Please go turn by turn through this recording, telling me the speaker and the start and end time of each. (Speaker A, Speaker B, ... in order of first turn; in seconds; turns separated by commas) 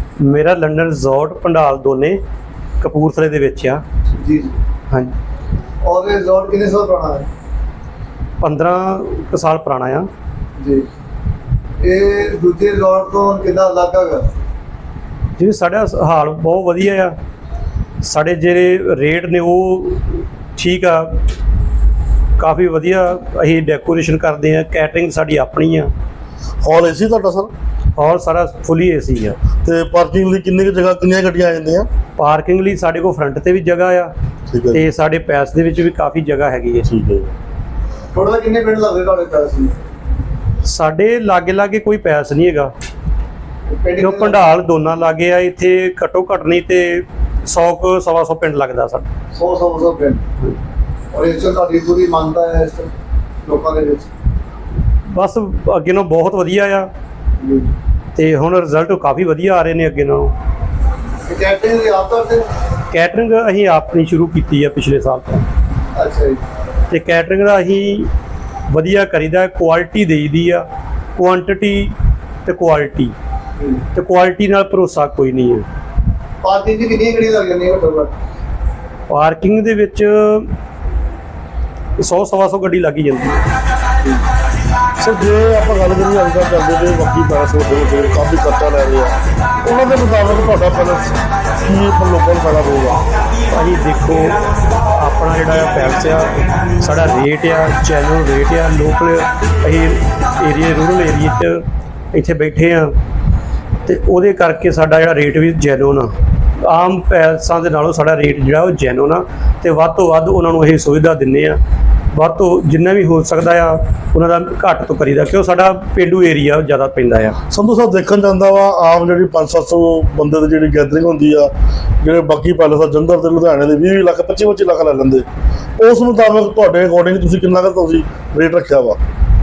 Speaker A: 0.2-2.2, Speaker A: 2.8-3.8, Speaker B: 4.2-4.6, Speaker B: 5.8-7.3, Speaker A: 8.4-10.1, Speaker B: 10.6-10.9, Speaker B: 11.8-14.3, Speaker A: 15.4-17.1, Speaker A: 18.0-21.2, Speaker A: 22.4-25.9, Speaker C: 26.6-27.5, Speaker A: 28.0-29.4, Speaker C: 29.6-31.9, Speaker A: 32.2-34.1, Speaker C: 34.5-34.8, Speaker A: 34.7-36.9, Speaker C: 36.9-37.3, Speaker B: 38.1-39.7, Speaker A: 40.6-42.7, Speaker B: 43.7-44.5, Speaker A: 44.0-49.0, Speaker B: 49.3-50.2, Speaker B: 51.1-52.9, Speaker B: 53.4-54.1, Speaker A: 55.1-56.9, Speaker B: 57.4-57.7, Speaker A: 58.1-60.3, Speaker B: 61.3-62.5, Speaker A: 62.9-65.5, Speaker B: 65.9-66.4, Speaker A: 66.9-68.1, Speaker A: 68.7-70.7, Speaker A: 71.2-71.9, Speaker A: 72.4-73.1, Speaker B: 73.6-73.8, Speaker A: 73.9-75.7, Speaker B: 76.4-78.1, Speaker A: 79.1-80.5, Speaker A: 82.0-83.4, Speaker C: 85.0-93.0, Speaker A: 93.5-101.6, Speaker A: 102.1-102.9, Speaker A: 103.8-111.6, Speaker A: 112.1-117.4, Speaker C: 117.5-121.5, Speaker C: 122.0-125.2, Speaker C: 125.8-129.0